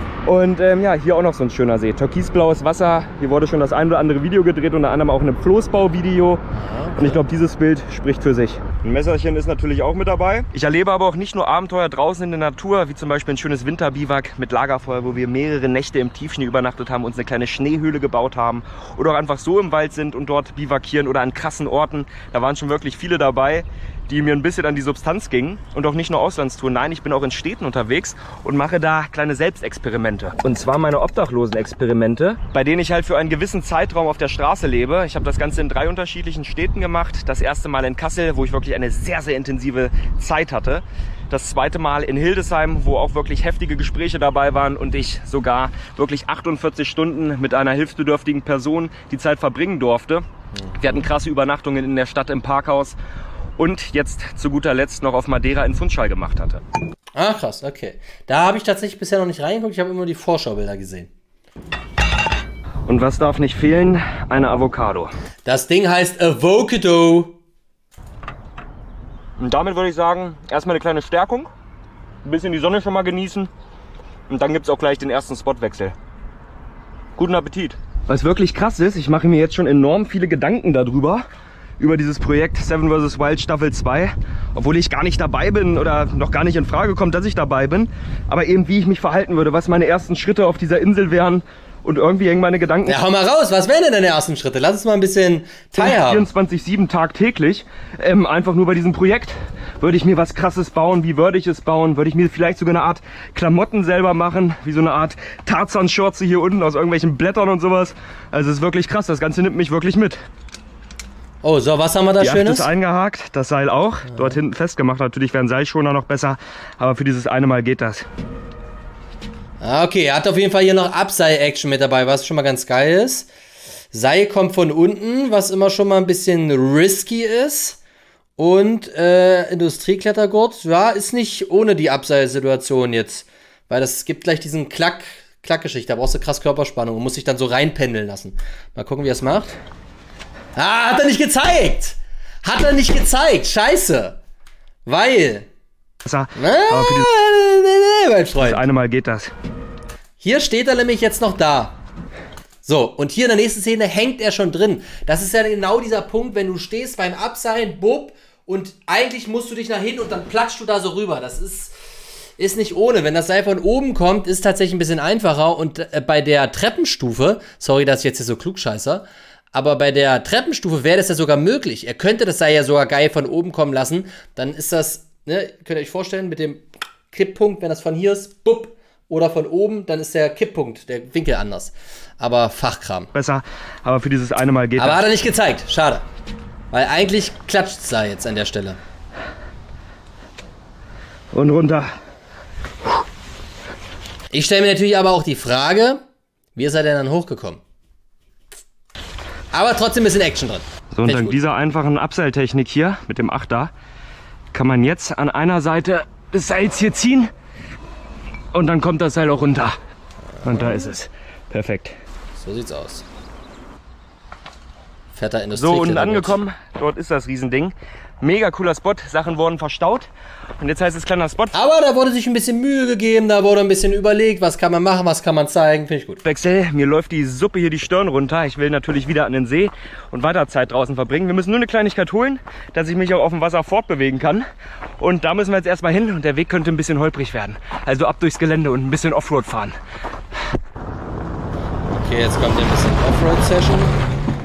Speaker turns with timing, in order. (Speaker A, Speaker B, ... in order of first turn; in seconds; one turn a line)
Speaker A: 0.3-6.4
Speaker B: 6.5-7.2
Speaker A: 7.0-50.2
Speaker B: 50.6-51.1
Speaker A: 50.8-53.0
Speaker A: 53.6-56.6
Speaker B: 57.2-61.1
Speaker A: 62.9-65.1
Speaker B: 65.5-67.4
Speaker A: 69.4-71.5
Speaker A: 72.2-73.5
Speaker A: 74.3-76.0
Speaker A: 77.2-81.2
Speaker A: 81.8-93.0
Speaker B: 92.9-96.3
Speaker A: 95.8-110.2
Speaker B: 111.4-112.7
Speaker A: 112.2-118.1
Speaker B: 119.6-123.3
Speaker B: 123.9-127.8
Speaker B: 128.4-139.6
Speaker B: 140.6-144.2
Speaker B: 144.9-145.5
Speaker A: 146.1-147.1
Speaker B: 146.4-148.6
Speaker A: 148.4-149.3
Speaker B: 150.2-151.8
Speaker B: 152.6-161.7
Speaker B: 162.4-183.1
Speaker A: 183.1-185.0
Speaker B: 184.8-186.0
Speaker B: 186.7-188.8
Speaker A: 191.3-191.9
Speaker B: 194.3-196.0
Speaker B: 196.6-197.6
Speaker B: 199.5-201.4
Speaker A: 200.9-203.7
Speaker A: 204.5-207.3
Speaker A: 208.5-209.8
Speaker B: 210.4-210.9
Speaker A: 210.4-212.0
Speaker B: 212.4-213.1
Speaker B: 215.1-216.4
Speaker A: 215.5-221.6
Speaker B: 221.5-226.2
Speaker A: 226.2-234.5
Speaker A: 235.0-239.8
Speaker B: 242.0-244.0